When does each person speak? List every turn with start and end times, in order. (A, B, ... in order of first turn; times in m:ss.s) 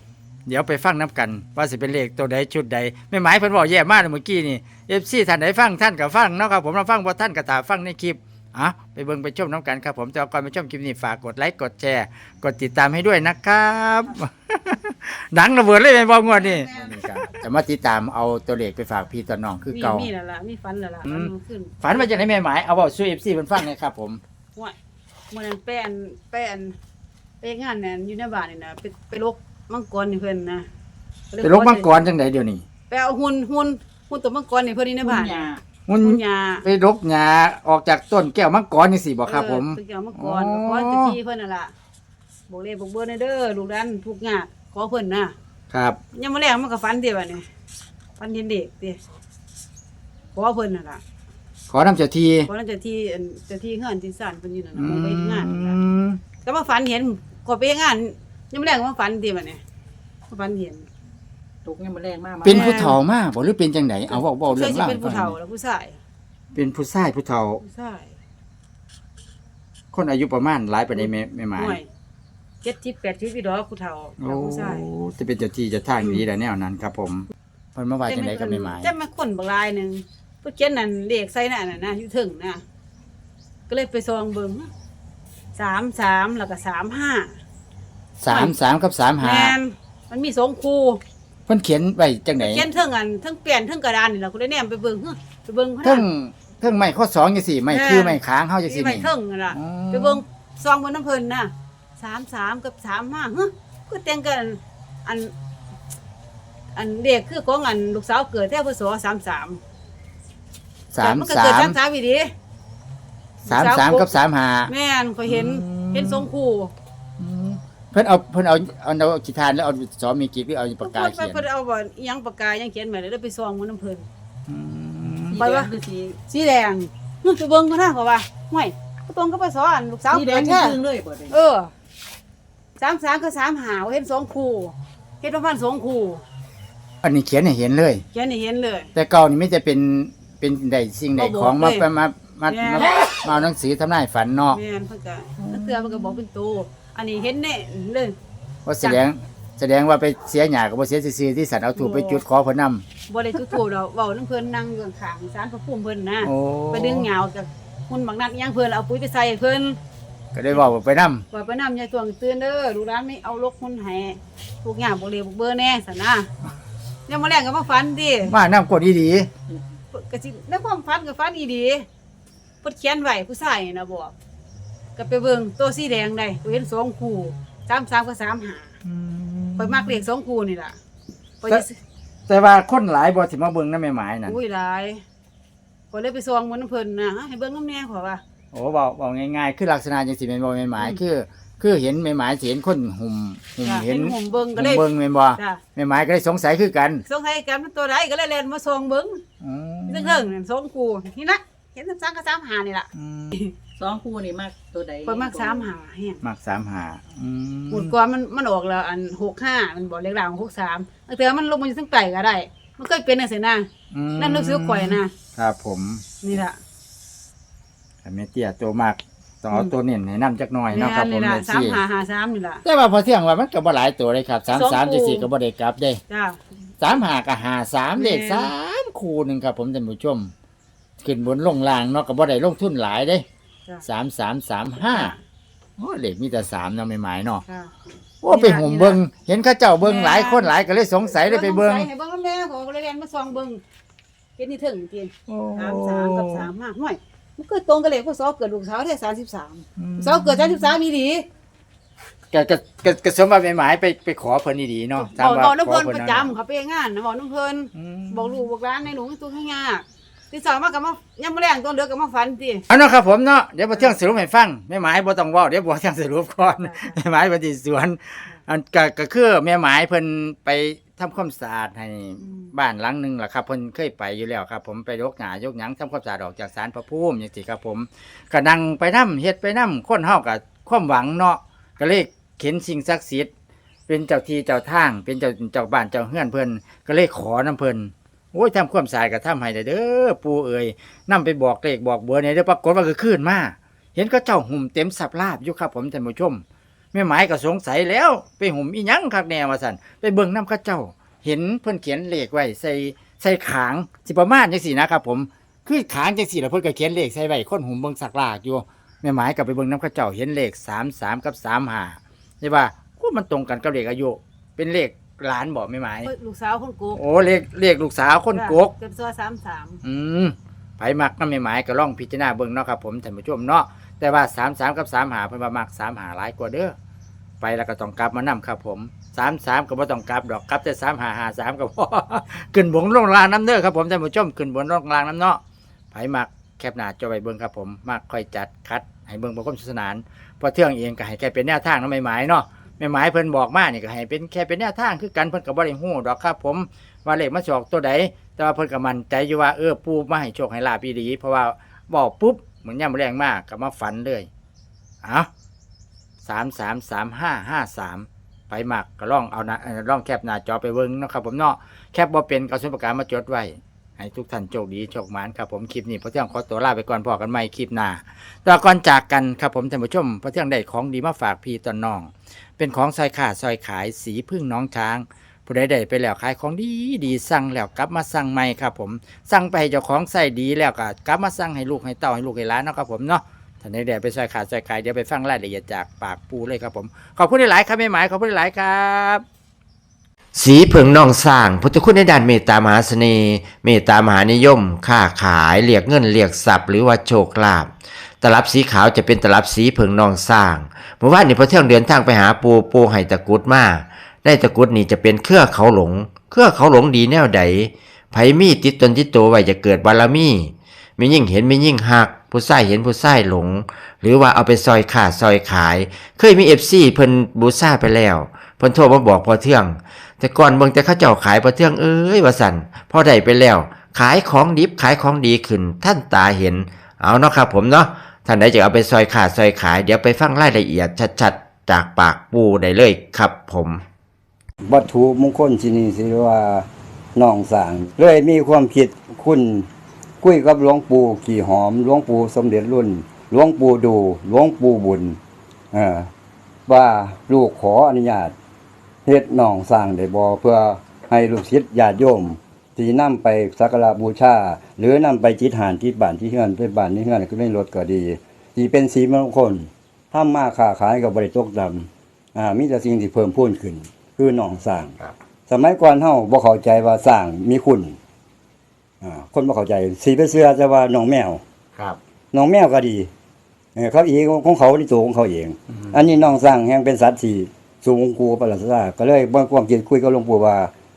0:00.4-0:20.1 A
0:16.4-0:17.4 B
0:19.7-0:22.1 B
0:21.0-0:21.3 A
0:21.8-0:24.2 A
0:25.3-0:26.7 B
0:27.4-0:30.7 B
0:31.3-0:32.0 B
0:31.4-0:32.6 A
0:32.9-0:35.5 B
0:35.0-0:35.6 C
0:35.9-0:41.1 A
0:36.0-0:36.6 B
0:39.3-0:41.7 B
0:42.5-0:45.3 B
0:45.7-0:46.0 A
0:46.1-0:47.4 B
0:48.2-0:49.0 B
0:50.3-0:51.0 B
0:51.7-0:52.5 A
0:52.5-0:55.8 B
0:54.7-0:56.2 A
0:56.4-0:59.6 B
1:00.3-1:00.8 B
1:01.6-1:03.0 C
1:02.4-1:05.3 A
1:02.5-1:03.0 B
1:04.1-1:06.0 B
1:06.5-1:07.6 A
1:07.6-1:08.1 B
1:09.9-1:11.8 A
1:10.9-1:11.9 B
1:12.6-1:14.8 B
1:14.2-1:18.9 A
1:18.1-1:22.6 B
1:23.7-1:24.7 B
1:25.6-1:27.3 B
1:28.2-1:29.6 A
1:28.3-1:28.5 B
1:29.2-1:31.0 B
1:31.5-1:32.6 A
1:32.4-1:36.0 B
1:35.8-1:40.2 A
1:37.7-1:45.3 B
1:46.7-1:49.6 B
1:50.9-1:51.8 A
1:51.0-1:52.3 B
1:53.4-1:54.1 B
1:53.5-1:54.7 A
1:54.7-1:56.7 B
1:55.2-1:56.3 A
1:57.2-2:01.4 A
2:00.8-2:04.1 B
2:04.5-2:05.4 A
2:05.3-2:06.2 C
2:05.4-2:05.7 B
2:06.2-2:10.8 B
2:10.1-2:11.3 C
2:11.3-2:11.7 B
2:12.8-2:16.2 B
2:17.0-2:18.0 A
2:18.1-2:18.9 B
2:18.9-2:24.6 A
2:21.2-2:21.8 B
2:22.5-2:23.0 B
2:24.5-2:28.2 B
2:25.4-2:26.2 A
2:28.6-2:32.8 A
2:31.8-2:32.2 B
2:33.1-2:39.8 B
2:36.2-2:37.1 A
2:40.3-2:41.2 A
2:41.3-2:46.3 B
2:47.1-2:48.3 B
2:48.2-2:49.3 A
2:49.9-2:51.8 B
2:52.6-2:54.1 B
2:55.0-2:58.7 B
2:58.8-3:00.0 A
2:59.6-3:00.8 B
3:01.4-3:01.8 B
3:02.3-3:04.4 A
3:04.2-3:05.0 B
3:05.9-3:08.2 B
3:08.5-3:17.0 A
3:13.6-3:14.8 B
3:17.0-3:19.2 B
3:19.4-3:20.3 A
3:19.9-3:23.5 B
3:23.0-3:23.4 A
3:23.8-3:25.7 C
3:25.0-3:26.2 B
3:26.2-3:27.9 A
3:27.7-3:33.6 B
3:33.9-3:36.0 A
3:34.2-3:35.1 B
3:36.2-3:36.6 B
3:38.0-3:41.8 A
3:40.7-3:42.6 B
3:42.6-3:46.0 A
3:44.5-3:45.3 B
3:46.1-3:46.4 B
3:46.8-3:50.3 A
3:47.9-3:48.5 B
3:51.0-3:53.2 A
3:53.8-3:55.1 A
3:54.8-3:55.2 B
3:55.8-3:57.4 A
3:57.4-3:57.7 B
3:58.2-4:01.9 A
3:58.3-3:59.0 B
3:59.8-4:00.5 B
4:01.0-4:03.6 B
4:04.4-4:11.2 B
4:05.3-4:06.5 A
4:09.8-4:10.7 A
4:12.3-4:16.3 A
4:15.0-4:22.6 B
4:17.7-4:18.5 A
4:22.7-4:43.3 A
4:26.5-4:27.0 B
4:32.2-4:32.5 B
4:43.9-5:16.1 A
5:16.0-5:17.0 B
5:16.9-5:18.7 A
5:18.3-5:19.8 B
5:19.8-5:26.7 A
5:27.4-5:35.4 A
5:35.9-5:54.3 A
5:55.0-5:55.3 A
5:56.2-6:29.2 A
6:30.3-6:37.7 D
6:38.2-7:13.8 D
7:14.6-7:19.7 E
7:20.2-7:25.2 E
7:25.7-7:26.1 E
7:26.7-7:28.3 E
7:29.0-7:44.9 E
7:45.5-7:48.0 E
7:49.0-7:51.4 E
7:52.3-7:53.1 E
7:53.8-8:00.7 E